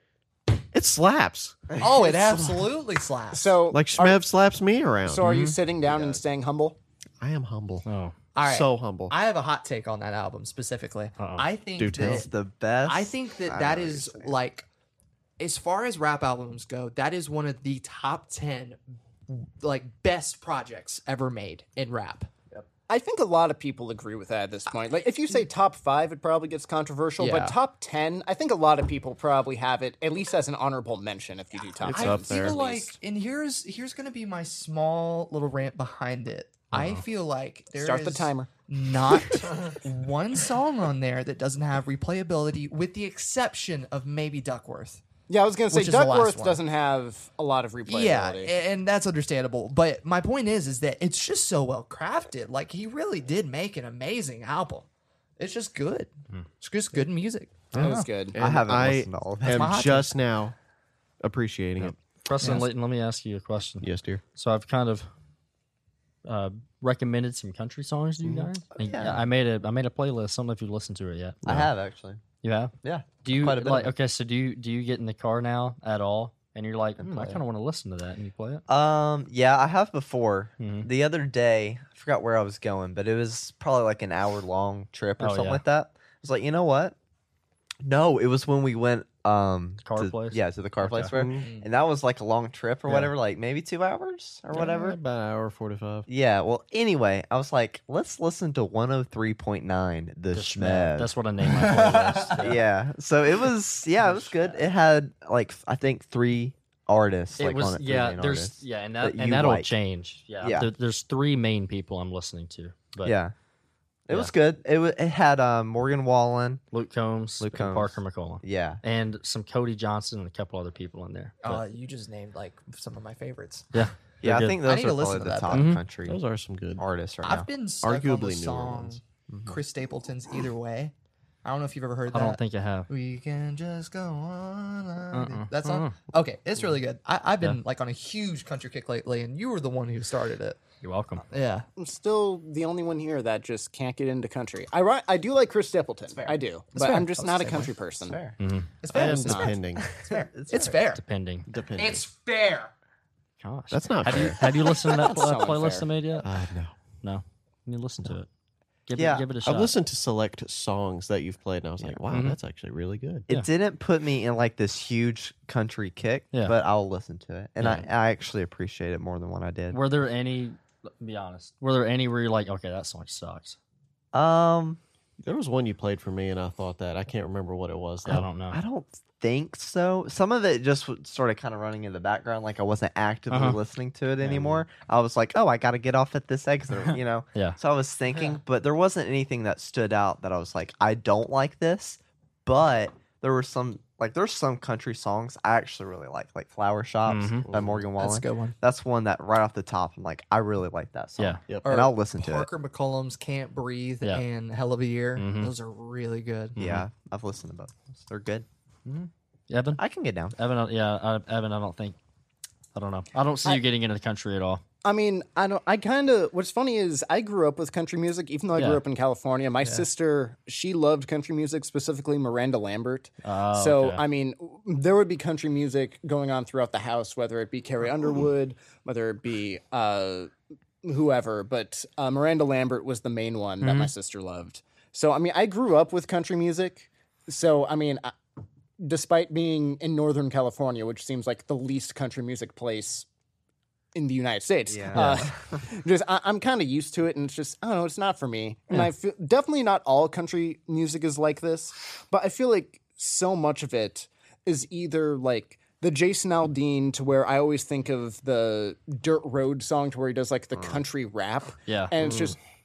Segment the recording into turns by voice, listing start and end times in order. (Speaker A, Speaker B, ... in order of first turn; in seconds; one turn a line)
Speaker A: 0.7-1.8
Speaker B: 1.7-2.5
Speaker C: 1.8-3.6
Speaker D: 3.3-4.2
Speaker A: 3.7-5.3
Speaker D: 5.0-6.8
Speaker E: 5.2-5.5
Speaker A: 7.2-7.9
Speaker E: 7.8-8.1
Speaker C: 8.3-12.3
Speaker A: 8.4-9.1
Speaker E: 11.2-11.4
Speaker A: 11.8-12.3
Speaker B: 11.9-14.4
Speaker C: 12.8-14.7
Speaker C: 15.4-22.3
Speaker D: 22.9-33.0
Speaker C: 27.2-27.6
Speaker A: 31.8-32.6
Speaker C: 31.9-45.0
Speaker E: 36.7-37.0
Speaker D: 37.7-38.5
Speaker D: 45.3-48.5
Speaker C: 45.7-46.6
Speaker C: 47.9-54.9
Speaker C: 55.4-58.1
Speaker A: 57.7-60.5
Speaker D: 57.8-58.3
Speaker B: 58.4-59.8
Speaker C: 59.5-60.1
Speaker A: 61.2-62.0
Speaker E: 61.8-65.1
Speaker A: 63.8-64.2
Speaker E: 66.2-71.4
Speaker B: 68.8-69.2
Speaker B: 71.4-72.2
Speaker E: 72.4-72.7
Speaker B: 72.8-73.9
Speaker E: 73.2-78.6
Speaker B: 77.0-77.4
Speaker B: 78.7-86.9
Speaker E: 80.6-80.9
Speaker E: 85.2-85.6
Speaker B: 87.8-95.0
Speaker E: 89.8-91.1
Speaker A: 91.1-91.5
Speaker C: 91.4-91.7
Speaker A: 94.5-96.1
Speaker B: 96.1-101.1
Speaker E: 100.3-102.6
Speaker C: 101.5-102.4
Speaker B: 102.4-109.7
Speaker E: 107.4-113.1
Speaker B: 110.4-110.7
Speaker B: 113.0-113.3
Speaker B: 114.1-116.6
Speaker E: 116.7-121.6
Speaker B: 117.4-118.8
Speaker C: 121.4-123.7
Speaker E: 123.7-124.6
Speaker B: 124.2-126.2
Speaker C: 124.5-125.7
Speaker E: 125.5-125.8
Speaker A: 126.0-126.8
Speaker B: 126.8-127.5
Speaker C: 127.2-130.9
Speaker A: 127.8-129.0
Speaker B: 129.3-129.6
Speaker C: 131.4-140.6
Speaker E: 132.1-132.9
Speaker E: 135.1-135.9
Speaker E: 140.8-141.2
Speaker C: 141.3-141.7
Speaker D: 141.8-148.2
Speaker C: 146.2-147.7
Speaker B: 148.0-148.3
Speaker E: 148.4-148.7
Speaker C: 148.8-151.0
Speaker A: 148.9-149.9
Speaker D: 148.9-149.5
Speaker B: 149.8-150.8
Speaker E: 150.9-151.5
Speaker A: 151.5-152.0
Speaker C: 151.8-152.7
Speaker E: 153.4-156.3
Speaker A: 153.7-154.5
Speaker D: 154.8-155.9
Speaker A: 156.2-156.7
Speaker E: 157.0-158.3
Speaker E: 158.9-159.7
Speaker B: 158.9-159.3
Speaker A: 159.4-163.2
Speaker E: 162.1-162.4
Speaker B: 163.3-169.8
Speaker E: 167.6-167.9
Speaker E: 169.7-173.6
Speaker B: 174.1-174.8
Speaker A: 175.2-178.3
Speaker E: 178.0-178.6
Speaker B: 178.1-202.5
Speaker E: 183.3-183.6
Speaker C: 188.1-188.4
Speaker E: 197.1-197.5
Speaker A: 197.5-197.9
Speaker C: 198.0-198.5
Speaker C: 201.6-206.6
Speaker E: 205.2-205.5
Speaker E: 206.6-206.9
Speaker B: 206.6-208.4
Speaker E: 208.8-209.8
Speaker B: 209.8-210.3
Speaker E: 210.3-211.9
Speaker E: 212.7-214.6
Speaker D: 214.8-230.3
Speaker E: 218.6-218.8
Speaker E: 223.2-224.0
Speaker D: 230.8-238.1
Speaker E: 233.6-233.9
Speaker D: 238.8-243.1
Speaker D: 243.9-262.4
Speaker B: 244.7-245.6
Speaker E: 244.9-245.3
Speaker E: 261.7-261.9
Speaker A: 262.0-262.3